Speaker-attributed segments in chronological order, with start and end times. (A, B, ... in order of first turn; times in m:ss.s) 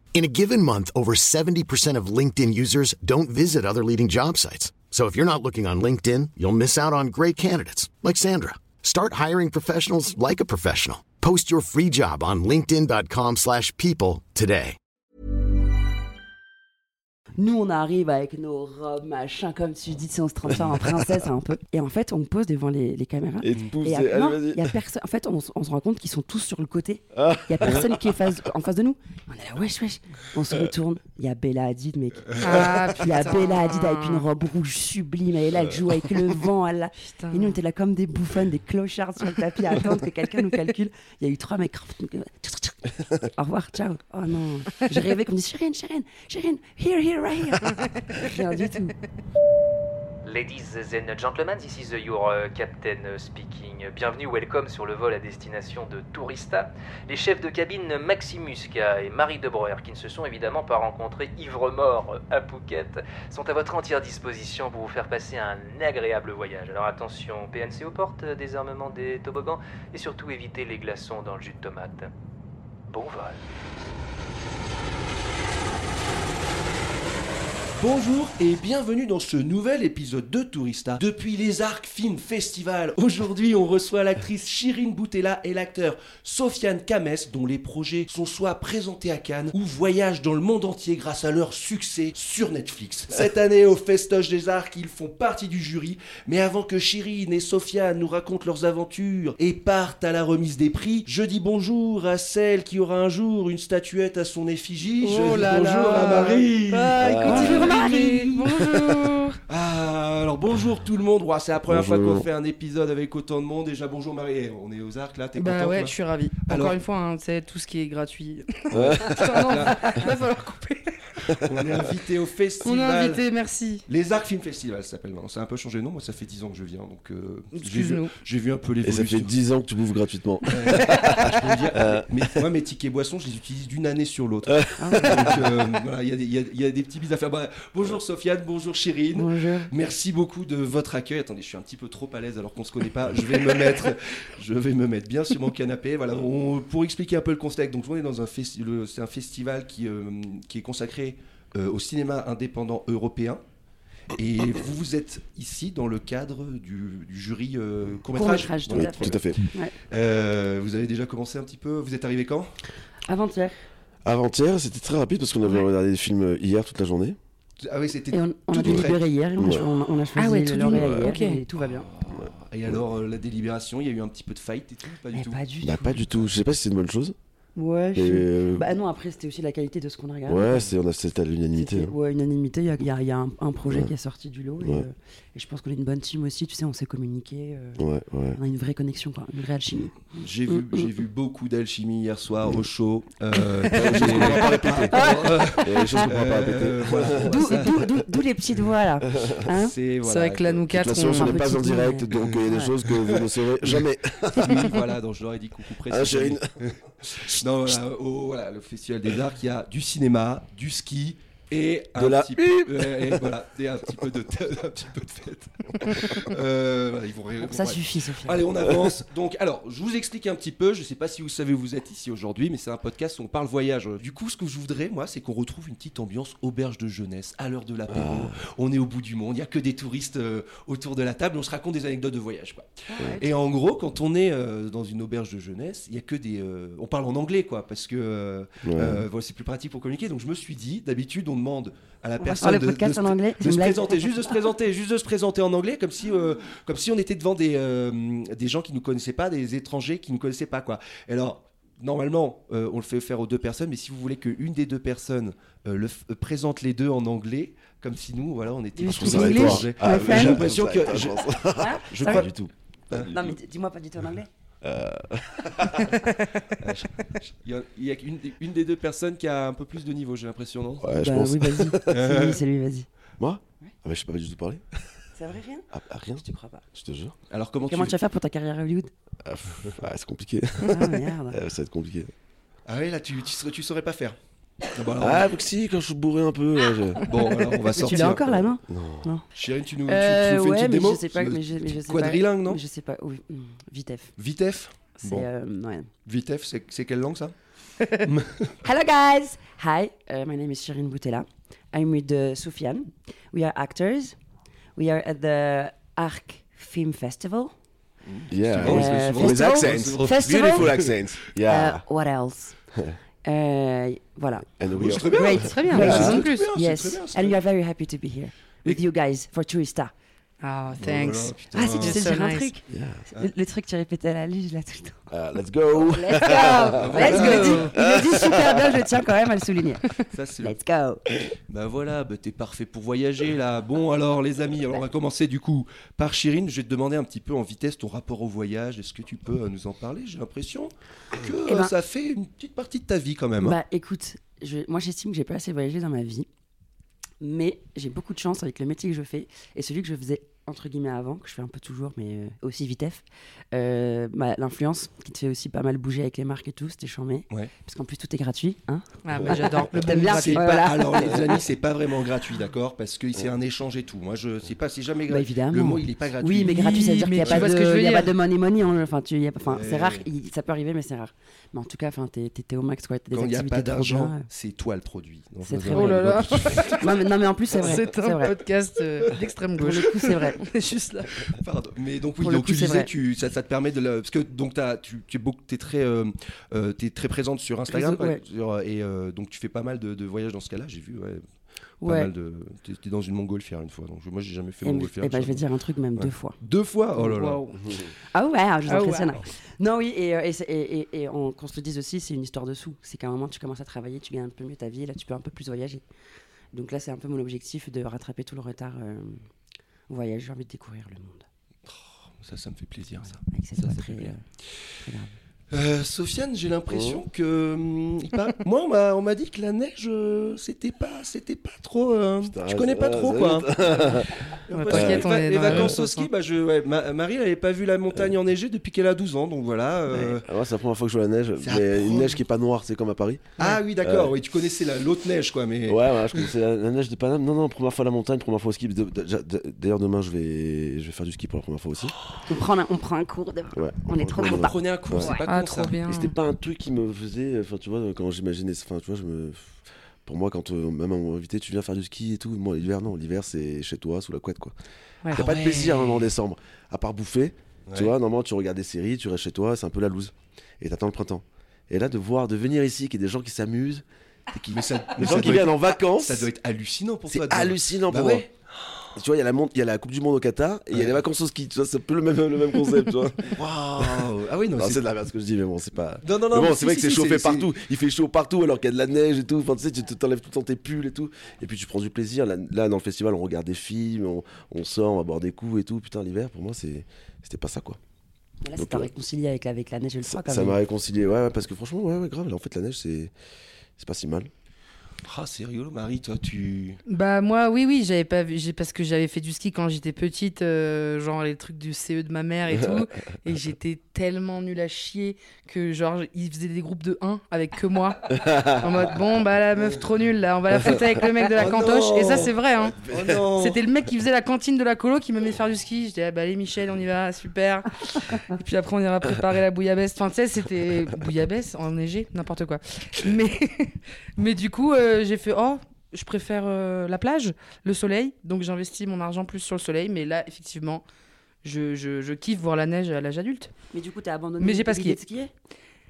0:00.1-0:14.8 A
0:17.4-0:49.0 B
0:23.4-0:24.8 C
0:27.1-0:28.1 C
0:32.4-0:34.3 D
0:37.1-0:37.6 D
0:50.2-1:12.1 E
1:12.9-1:13.4 E
1:17.8-1:47.8 F
1:45.0-1:49.4 D
1:47.0-1:47.8 C
1:47.2-1:48.5 B
1:49.5-1:56.8 F
1:51.7-1:52.3 C
1:55.4-2:01.3 D
1:58.7-1:59.6 C
1:58.7-2:00.1 F
2:01.4-2:03.2 F
2:02.6-2:03.8 D
2:03.9-2:09.3 F
2:07.5-2:08.1 D
2:08.8-2:12.4 C
2:10.4-2:33.4 F
2:10.8-2:11.3 D
2:14.5-2:15.4 C
2:14.8-2:15.4 B
2:19.1-2:19.7 B
2:34.1-2:42.5 F
2:38.1-2:39.7 B
2:38.7-2:39.5 C
2:43.1-2:43.6 B
2:44.0-2:47.2 C
2:47.6-2:49.0 F
2:48.1-2:51.9 B
2:49.4-2:49.7 C
2:50.2-2:51.4 D
2:51.8-2:55.4 F
2:55.1-2:56.0 B
2:55.6-2:57.2 C
2:57.6-3:00.7 B
2:58.0-2:58.7 C
3:00.3-3:02.0 C
3:01.5-3:07.8 B
3:04.6-3:04.9 C
3:07.8-3:08.4 C
3:08.4-3:10.0 B
3:10.2-3:17.9 F
3:10.5-3:10.8 B
3:13.6-3:17.9 C
3:14.9-3:16.1 B
3:17.3-3:19.7 B
3:19.4-3:20.9 F
3:20.0-3:21.5 D
3:20.7-3:24.8 C
3:21.1-3:22.7 B
3:22.9-4:22.4 F
3:25.9-3:26.5 C
3:27.2-3:27.7 C
3:32.0-3:33.3 C
3:37.4-3:38.5 B
3:47.9-3:48.4 C
3:52.9-3:53.3 B
3:58.6-3:59.0 C
4:02.2-4:04.2 B
4:18.8-4:20.5 B
4:18.9-4:23.3 C
4:21.6-4:22.3 B
4:23.0-4:24.3 B
4:24.6-4:26.0 C
4:26.6-4:31.0 F
4:30.8-4:31.8 C
4:31.0-4:32.9 B
4:31.9-4:32.4 F
4:33.2-4:34.6 C
4:35.2-4:35.7 B
4:35.7-4:37.2 C
4:36.2-4:36.6 B
4:37.3-4:38.0 F
4:37.6-4:38.9 B
4:39.2-4:42.1 C
4:40.7-4:41.4 B
4:42.7-4:45.3 F
4:45.0-4:47.1 C
4:47.0-4:48.2 F
4:47.8-4:49.3 B
4:48.2-4:49.1 C
4:49.4-4:52.6 F
4:49.9-4:54.1 B
4:54.2-4:55.3 F
4:55.0-4:55.9 B
4:56.1-4:57.3 F
4:58.0-4:58.5 F
4:58.6-5:04.2 B
5:04.8-5:07.5 B
5:08.0-5:10.9 F
5:08.3-5:11.8 C
5:08.6-5:10.8 B
5:11.4-5:12.6 B
5:13.2-5:14.5 B
5:14.5-5:16.2 C
5:14.7-5:17.4 F
5:15.0-5:19.9 B
5:15.6-5:16.5 D
5:20.4-5:22.5 D
5:20.8-5:22.1 F
5:21.5-5:25.1 B
5:22.7-5:23.1 C
5:25.1-5:29.0 C
5:25.7-5:29.8 B
5:26.8-5:27.7 F
5:27.0-5:27.8 D
5:30.1-5:30.5 F
5:30.4-5:31.0 B
5:31.5-5:43.6 F
5:41.4-5:41.7 B
5:43.4-5:46.3 B
5:47.2-6:01.4 B
5:59.0-6:00.4 D
5:59.9-6:07.5 F
6:05.1-6:14.3 B
6:06.4-6:08.1 D
6:09.5-6:10.1 F
6:13.1-6:16.8 F
6:15.4-6:18.3 B
6:15.7-6:17.0 D
6:17.5-6:21.3 D
6:19.6-6:20.4 B
6:21.3-6:31.2 F
6:22.2-6:22.9 B
6:27.7-6:28.2 B
6:31.8-6:32.1 B
6:31.8-6:35.4 F
6:34.6-6:36.4 B
6:36.0-6:37.4 F
6:37.0-6:37.6 D
6:38.1-6:45.8 B
6:38.7-6:39.2 D
6:46.5-6:49.2 B
6:49.9-6:51.3 B
6:51.7-6:54.1 F
6:53.3-6:54.2 B
6:54.8-6:55.1 B
6:55.5-7:03.7 F
6:56.7-6:57.0 C
7:02.2-7:05.8 C
7:04.5-7:10.3 F
7:04.5-7:06.1 D
7:09.9-7:14.2 C
7:11.4-7:12.2 F
7:13.4-7:16.3 F
7:15.7-7:21.9 C
7:22.3-7:25.2 B
7:23.5-7:25.1 C
7:24.2-7:25.8 F
7:25.3-7:26.1 D
7:25.9-7:34.6 C
7:35.1-7:46.3 C
7:35.1-7:36.1 F
7:37.7-7:37.9 F
7:44.5-7:48.3 F
7:47.1-7:48.3 C
7:48.9-8:07.8 C
7:53.3-7:54.8 F
7:56.0-7:57.5 F
8:08.4-8:10.6 B
8:08.6-8:08.9 C
8:10.0-8:13.1 C
8:13.8-8:14.3 C
8:15.0-8:16.8 F
8:16.9-8:32.8 D
8:22.5-8:22.8 C
8:28.1-8:28.8 C
8:31.3-8:33.6 F
8:32.8-8:33.2 C
8:33.4-8:50.8 D
8:51.4-8:53.5 D
8:53.7-8:55.3 B
8:54.4-8:55.0 D